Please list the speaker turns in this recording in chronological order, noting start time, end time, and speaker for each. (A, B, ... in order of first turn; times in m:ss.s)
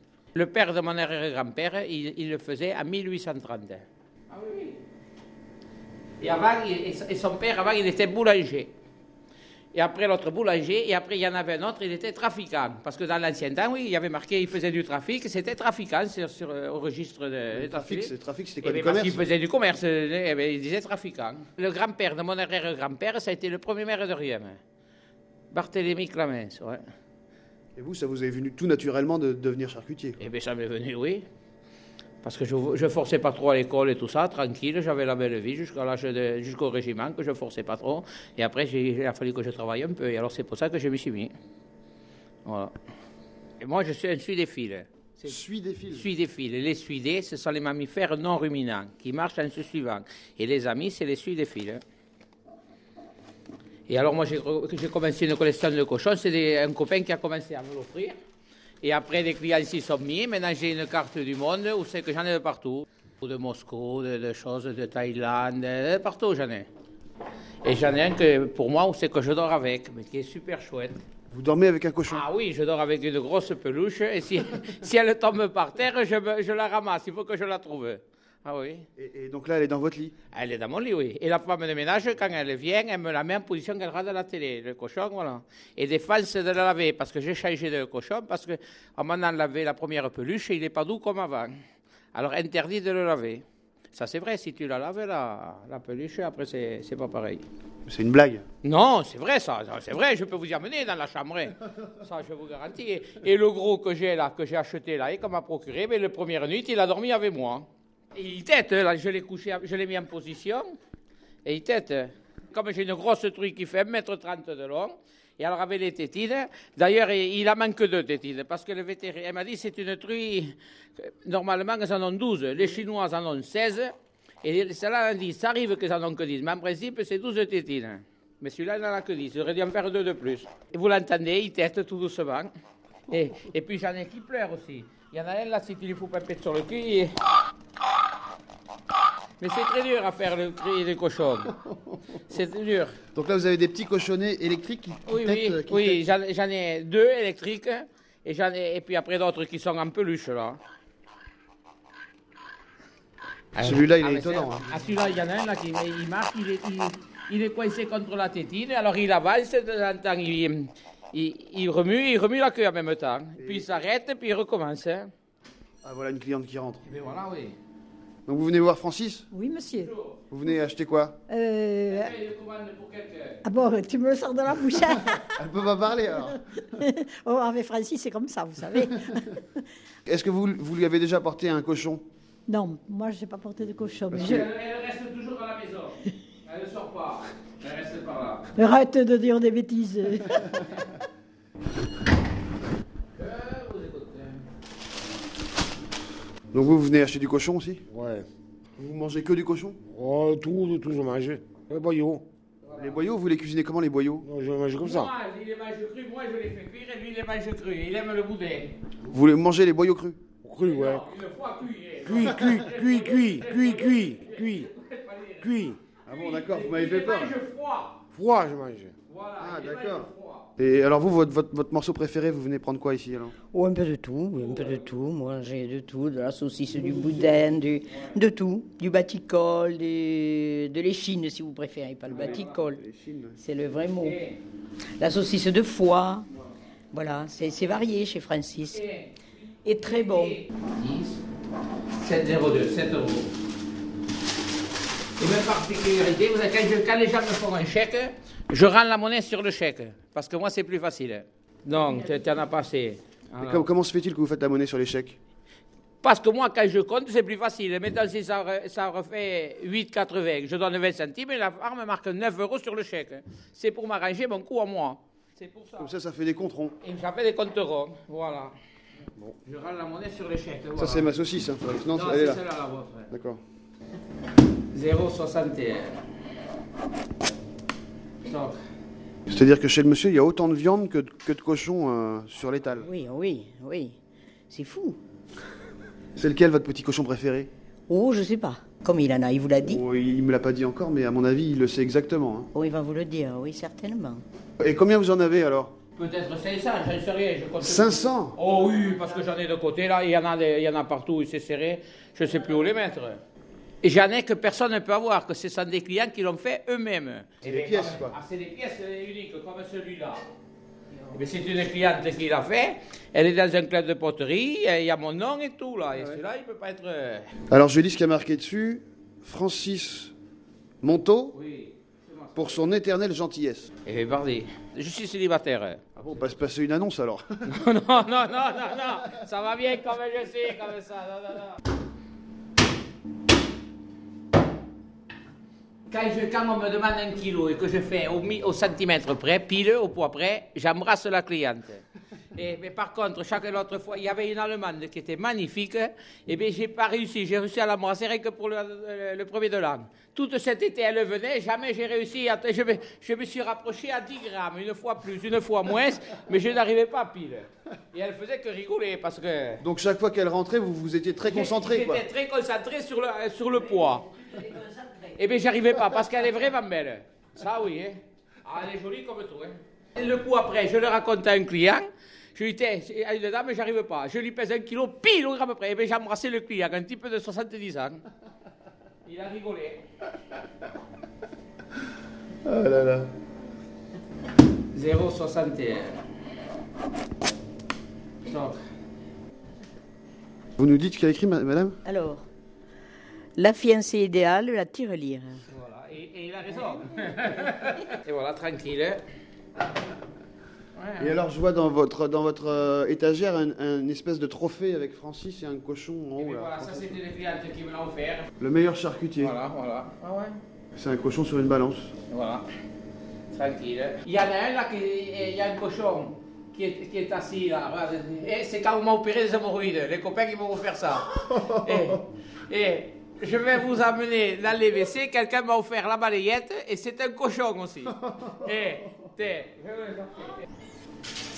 0:00.4-0:04.8 A
0:06.2-0:08.7 A
0:09.7-0:24.6 A
0:17.5-0:19.2 B
0:25.5-0:26.8 A
0:27.8-0:30.2 B
0:30.2-0:31.2 A
0:32.2-0:41.3 A
0:42.4-0:42.7 A
0:43.6-0:51.8 A
0:45.3-0:46.1 B
0:53.9-0:58.2 A
0:58.8-1:06.7 A
1:07.6-1:11.0 A
1:11.3-1:12.2 B
1:12.1-1:18.9 A
1:19.0-1:20.1 B
1:20.3-1:31.6 A
1:32.1-1:37.4 A
1:37.9-1:38.5 B
1:38.6-1:50.8 A
1:51.4-2:12.5 A
2:13.1-2:17.1 A
2:19.4-2:21.6 A
2:21.6-2:22.0 B
2:22.3-2:23.0 A
2:23.1-2:26.1 B
2:25.1-2:30.6 A
2:33.6-2:45.1 A
2:33.6-2:34.7 B
2:43.4-2:43.8 B
2:45.8-2:46.8 B
2:46.8-2:47.6 A
2:48.3-2:49.3 B
2:49.3-2:49.9 C
2:49.7-2:50.2 A
2:50.3-2:51.2 B
2:51.3-2:52.0 C
2:51.9-2:53.4 A
2:53.5-2:55.2 C
2:55.2-2:56.5 B
2:56.8-2:59.2 C
3:00.0-3:02.0 B
3:02.5-3:04.2 C
3:04.1-3:04.5 B
3:04.1-3:08.5 A
3:08.6-3:10.4 C
3:13.2-3:14.4 A
3:16.5-3:17.8 B
3:17.9-3:18.3 D
3:18.8-3:19.8 B
3:19.9-3:22.2 D
3:22.6-3:23.0 A
3:22.8-3:24.3 B
3:24.2-3:25.1 D
3:24.8-3:28.8 A
3:29.0-3:30.2 B
3:30.4-3:31.0 D
3:30.6-3:38.0 A
3:32.0-3:34.7 D
3:35.4-3:35.8 D
3:36.1-3:37.4 B
3:38.1-3:38.9 D
3:39.1-3:40.5 A
3:39.4-3:43.4 B
3:43.5-3:52.8 E
3:44.4-3:44.9 A
3:46.7-3:47.4 B
3:47.9-3:48.2 A
3:52.1-3:52.6 A
3:52.1-3:53.4 B
3:53.4-3:54.2 E
3:54.0-3:54.4 A
3:55.0-3:56.3 E
3:56.9-3:58.8 E
3:58.7-4:01.2 A
3:59.6-4:00.4 E
4:02.0-4:03.3 A
4:05.2-4:13.7 A
4:13.4-4:15.2 B
4:16.0-4:25.9 A
4:25.8-4:26.8 B
4:26.8-4:28.5 A
4:29.4-4:31.1 A
4:30.8-4:32.4 B
4:31.9-4:33.1 A
4:33.1-4:33.4 B
4:34.7-4:36.0 A
4:38.2-4:38.6 A
4:39.3-4:42.9 B
4:42.8-4:44.0 E
4:44.5-4:45.0 E
4:46.2-4:47.5 B
4:47.9-4:49.8 E
4:49.6-4:52.5 B
4:52.5-4:54.2 E
4:54.6-4:55.7 B
4:56.0-5:03.2 A
4:57.6-4:58.4 B
5:03.8-5:10.2 A
5:07.4-5:08.2 B
5:11.1-5:17.3 A
5:15.9-5:16.2 B
5:17.5-5:20.1 B
5:20.8-5:21.4 B
5:21.3-5:22.6 A
5:22.4-5:23.7 B
5:23.8-5:26.0 A
5:26.0-5:27.5 B
5:27.5-5:31.6 A
5:35.9-5:59.6 A
5:59.6-6:02.0 B
6:01.2-6:18.0 A
6:19.0-6:19.8 A
6:22.4-6:23.1 B
6:24.7-6:26.0 A
6:28.2-6:28.6 A
6:30.6-6:31.8 B
6:31.8-6:32.3 E
6:33.4-6:35.4 E
6:35.5-6:39.0 A
6:40.8-6:41.2 A
6:41.0-6:47.0 B
6:46.2-6:48.3 A
6:48.4-6:49.4 B
6:49.2-6:50.4 A
6:50.7-6:51.9 B
6:52.1-6:52.4 A
6:53.3-7:10.4 A